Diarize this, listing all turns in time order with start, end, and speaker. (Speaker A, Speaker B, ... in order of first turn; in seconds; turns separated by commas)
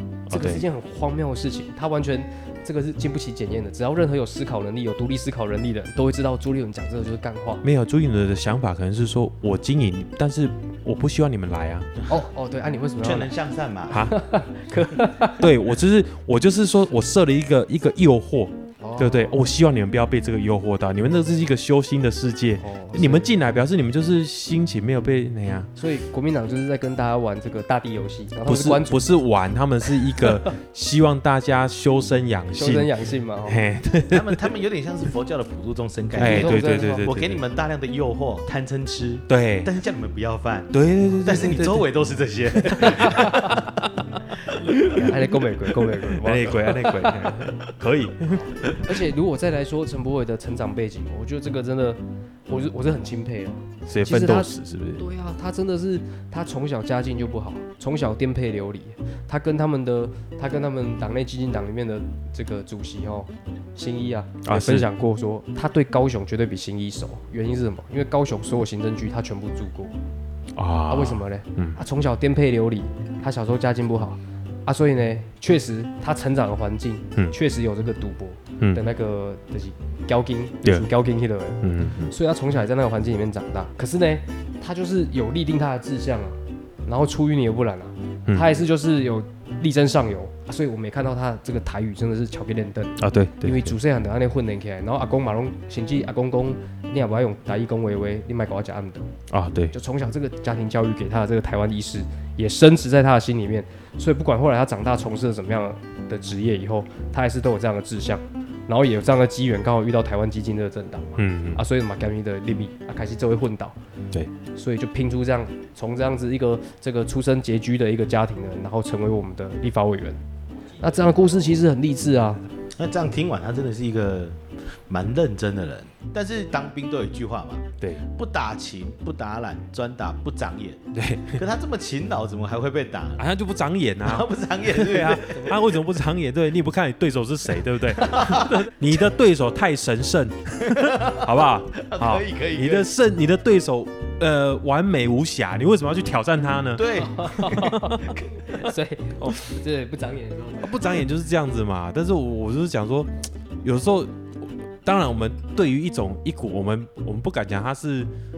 Speaker A: 0.3-0.7, Speaker B: 0.3-7.6, Speaker A: 7.6-11.9, Speaker B: 12.1-13.3, Speaker C: 13.0-14.1, Speaker A: 13.9-14.2, Speaker B: 14.1-15.5, Speaker A: 15.3-25.7, Speaker B: 18.8-19.4, Speaker B: 22.6-23.3, Speaker B: 25.8-29.0, Speaker A: 28.4-32.9, Speaker B: 30.0-30.5, Speaker B: 32.5-33.6, Speaker A: 33.5-34.4, Speaker C: 34.1-43.5, Speaker A: 36.1-37.4, Speaker B: 36.2-37.1, Speaker A: 39.3-39.7, Speaker A: 40.7-41.8, Speaker A: 42.5-49.0, Speaker B: 44.9-47.4, Speaker B: 48.3-69.9, Speaker A: 53.9-55.0, Speaker A: 64.4-64.9, Speaker A: 70.5-71.8, Speaker B: 70.9-99.1, Speaker A: 81.6-82.1, Speaker A: 93.0-93.8, Speaker A: 99.3-99.7, Speaker B: 99.7-113.8, Speaker A: 111.2-111.6, Speaker B: 114.5-120.2, Speaker B: 120.8-122.4, Speaker C: 122.8-133.2, Speaker A: 130.9-131.4, Speaker A: 133.2-148.0, Speaker C: 134.0-135.5, Speaker C: 138.0-138.6, Speaker C: 140.7-142.9, Speaker C: 146.8-148.2, Speaker B: 146.9-151.0, Speaker A: 150.6-158.1